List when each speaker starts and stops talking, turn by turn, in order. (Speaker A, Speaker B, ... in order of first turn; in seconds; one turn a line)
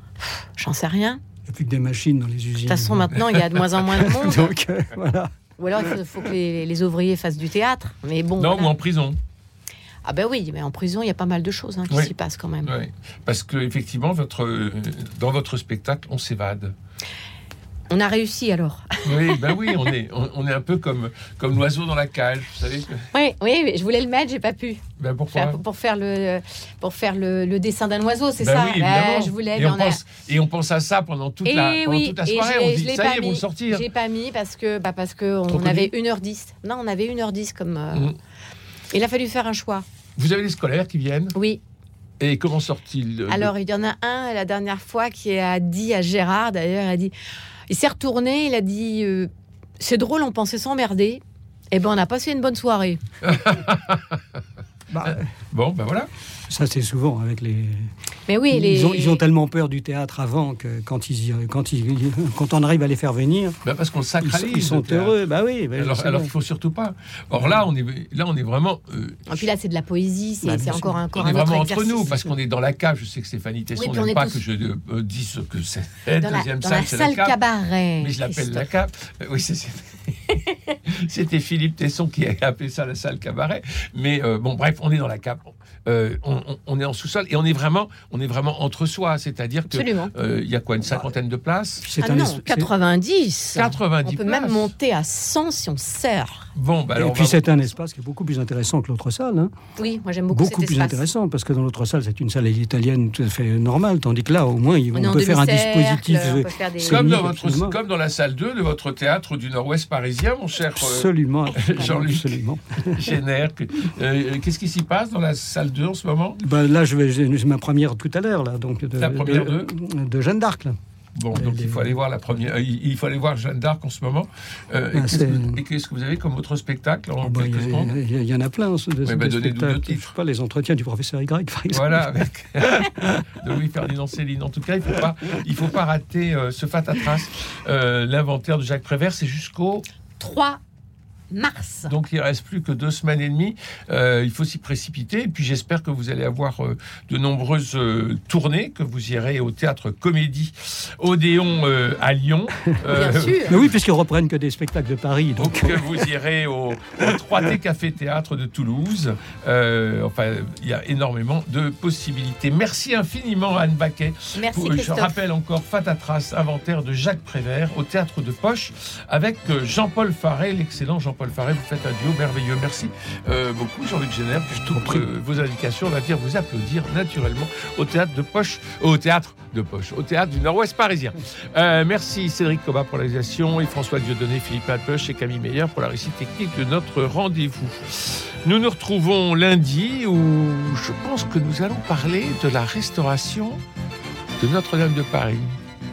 Speaker A: 0.3-1.2
Speaker B: 1.4-6.0
Speaker A: 2.6-4.5
Speaker A: 5.6-8.7
Speaker C: 8.4-9.2
Speaker A: 10.0-12.7
Speaker C: 12.6-16.7
Speaker A: 17.9-19.8
Speaker C: 19.0-23.1
Speaker A: 23.1-30.0
Speaker C: 25.0-25.6
Speaker C: 28.4-33.8
Speaker A: 31.4-38.1
Speaker C: 35.5-35.9
Speaker A: 38.9-39.8
Speaker C: 40.1-41.3
Speaker A: 41.3-41.6
Speaker C: 42.2-43.5
Speaker A: 43.3-47.1
Speaker A: 47.7-53.0
Speaker C: 53.2-54.2
Speaker B: 54.9-55.3
Speaker C: 55.0-56.1
Speaker B: 56.5-57.9
Speaker A: 58.3-59.2
Speaker B: 58.5-63.6
Speaker C: 63.6-65.2
Speaker B: 64.2-66.3
Speaker C: 65.8-69.4
Speaker A: 69.3-72.3
Speaker B: 70.4-71.0
Speaker C: 71.1-77.4
Speaker A: 73.8-74.4
Speaker A: 76.2-78.7
Speaker C: 78.0-91.8
Speaker A: 89.7-90.1
Speaker A: 91.8-96.5
Speaker B: 91.8-92.7
Speaker C: 93.5-94.7
Speaker C: 96.5-97.6
Speaker B: 96.9-99.5
Speaker A: 99.8-101.0
Speaker B: 100.3-107.8
Speaker A: 104.9-107.2
Speaker C: 106.8-116.4
Speaker B: 110.8-113.1
Speaker B: 116.4-120.8
Speaker C: 119.0-119.7
Speaker C: 121.1-127.9
Speaker B: 121.3-121.9
Speaker B: 124.9-125.6
Speaker B: 127.2-132.1
Speaker C: 129.0-130.1
Speaker C: 131.7-139.8
Speaker B: 132.8-133.3
Speaker A: 140.2-140.6
Speaker A: 141.3-141.9
Speaker C: 141.9-153.7
Speaker A: 152.9-153.5
Speaker B: 153.4-156.0
Speaker C: 155.4-193.6
Speaker A: 164.3-165.1
Speaker B: 174.7-175.1
Speaker C: 194.4-195.6